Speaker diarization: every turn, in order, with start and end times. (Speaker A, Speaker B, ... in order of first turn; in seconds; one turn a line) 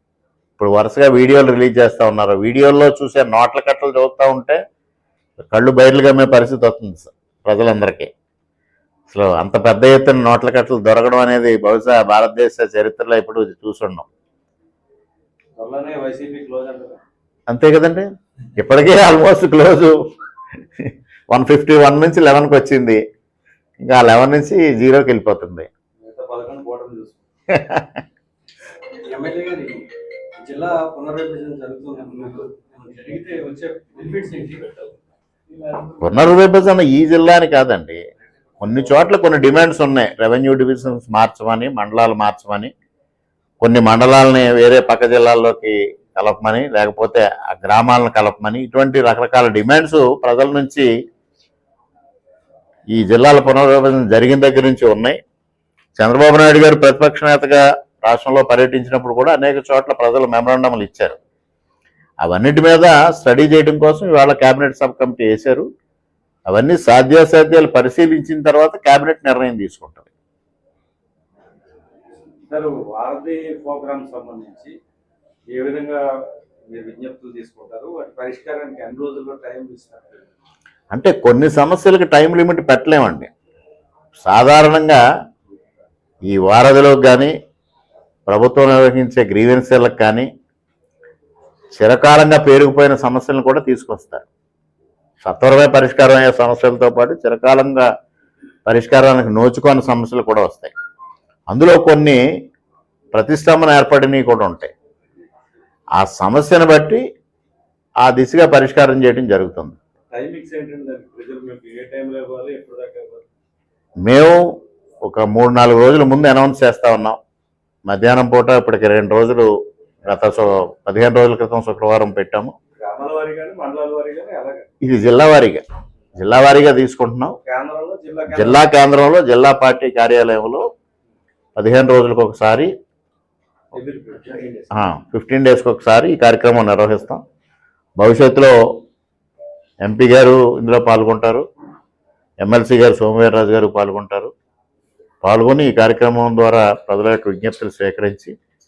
Speaker A: 0.6-4.6
Speaker A: 5.5-8.1
Speaker A: 9.1-14.1
Speaker B: 15.6-17.0
Speaker A: 17.5-19.9
Speaker A: 20.8-23.0
Speaker A: 23.8-25.7
Speaker B: 26.0-27.3
Speaker A: 27.5-28.0
Speaker B: 28.9-34.9
Speaker B: 35.7-36.0
Speaker A: 36.0-38.0
Speaker A: 38.6-42.7
Speaker A: 43.6-50.9
Speaker A: 52.9-55.2
Speaker A: 56.0-61.2
Speaker A: 62.2-65.7
Speaker A: 66.5-70.1
Speaker B: 72.5-74.7
Speaker B: 75.5-76.1
Speaker B: 76.7-80.3
Speaker A: 80.9-83.3
Speaker A: 84.2-85.0
Speaker A: 86.3-87.3
Speaker A: 88.3-90.3
Speaker A: 91.8-94.3
Speaker A: 95.2-97.9
Speaker A: 98.7-100.7
Speaker A: 101.5-102.2
Speaker A: 103.1-104.7
Speaker A: 106.0-107.0
Speaker A: 108.0-109.8
Speaker B: 110.1-113.3
Speaker A: 114.0-114.4
Speaker A: 115.0-117.2
Speaker A: 117.9-119.5
Speaker A: 120.0-122.5
Speaker B: 122.8-124.7
Speaker A: 124.8-125.6
Speaker A: 126.2-127.3
Speaker B: 127.4-128.7
Speaker A: 128.3-130.6
Speaker A: 131.6-132.7
Speaker B: 133.7-134.8
Speaker A: 134.7-137.2
Speaker A: 138.0-138.6
Speaker A: 139.8-141.4
Speaker A: 142.4-144.3
Speaker A: 145.2-148.3